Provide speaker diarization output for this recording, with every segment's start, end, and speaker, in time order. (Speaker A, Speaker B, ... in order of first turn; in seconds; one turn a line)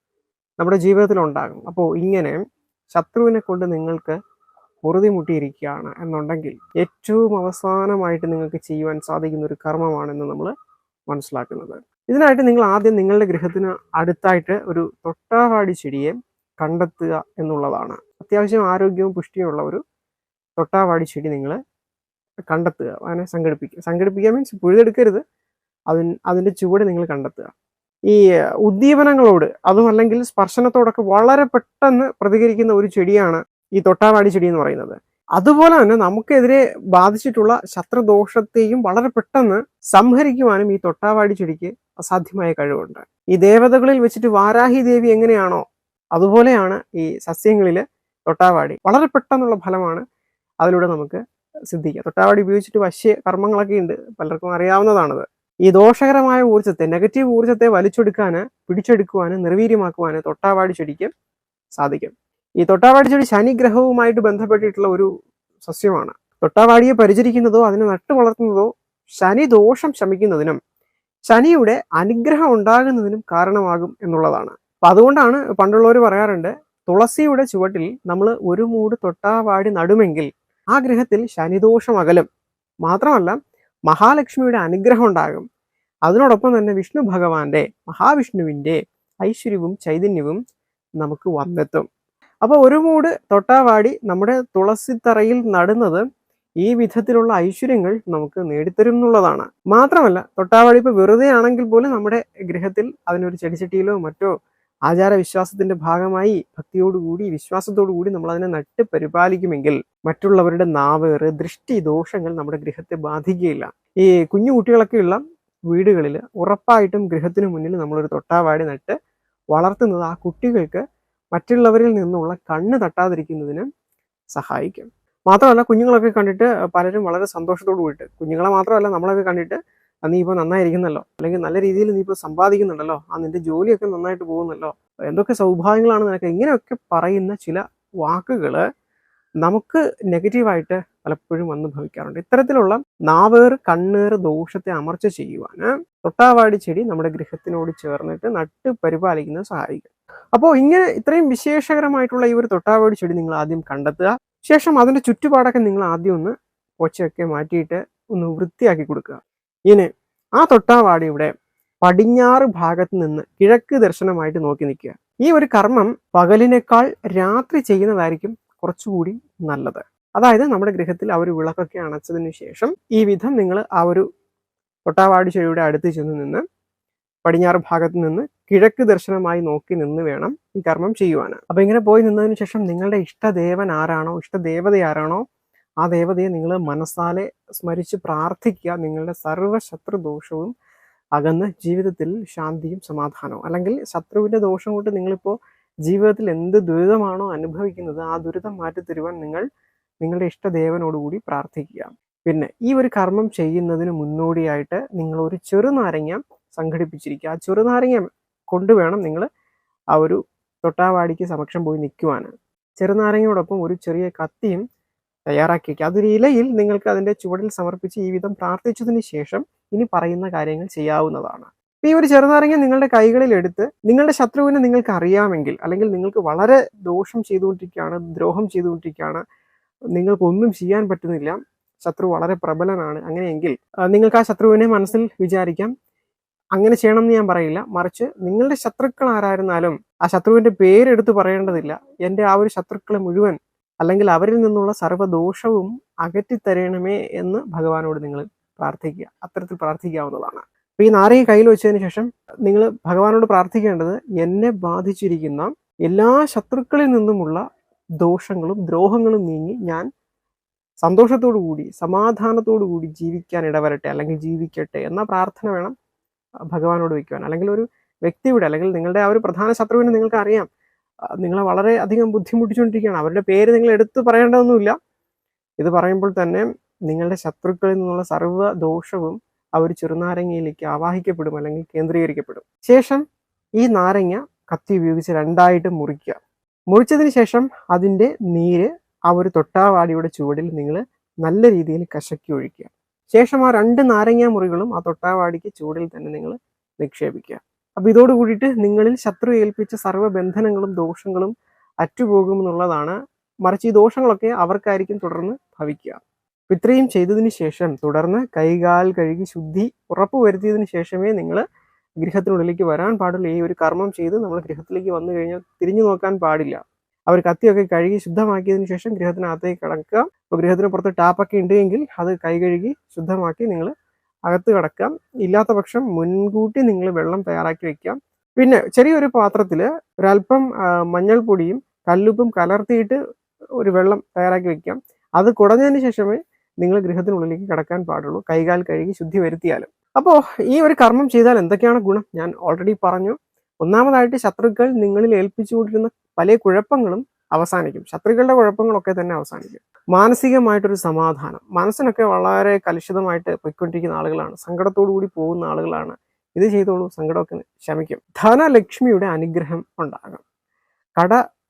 Speaker A: 0.6-2.4
Speaker A: 2.9-4.2
Speaker A: 4.8-10.5
Speaker A: 11.1-19.8
Speaker A: 20.6-21.6
Speaker A: 22.5-25.2
Speaker A: 25.9-27.5
Speaker A: 28.1-45.6
Speaker A: 46.1-50.0
Speaker A: 50.6-51.2
Speaker A: 51.7-61.1
Speaker A: 61.8-65.1
Speaker A: 65.6-68.7
Speaker A: 69.2-70.6
Speaker A: 71.3-82.2
Speaker A: 82.8-83.4
Speaker A: 83.9-85.4
Speaker A: 86.1-90.4
Speaker A: 91.0-91.8
Speaker A: 92.4-96.0
Speaker A: 96.6-104.3
Speaker A: 104.9-118.9
Speaker A: 119.5-120.8
Speaker A: 121.3-123.7
Speaker A: 124.3-138.6
Speaker A: 139.4-161.3
Speaker A: 161.8-174.1
Speaker A: 174.9-176.4
Speaker A: 177.2-185.2
Speaker A: 185.8-190.5
Speaker A: 191.2-195.3
Speaker A: 195.9-199.4
Speaker A: 200.0-209.2
Speaker A: 209.9-214.6
Speaker A: 215.3-229.2
Speaker A: 229.9-235.7
Speaker A: 236.6-257.4
Speaker A: 258.0-259.9
Speaker A: 260.8-265.7
Speaker A: 266.5-270.5
Speaker A: 271.2-274.8
Speaker A: 275.6-283.0
Speaker A: 283.6-286.2
Speaker A: 286.7-301.3
Speaker A: 301.8-306.0
Speaker A: 306.5-311.4
Speaker A: 312.0-323.7
Speaker A: 324.3-333.0
Speaker A: 333.6-360.2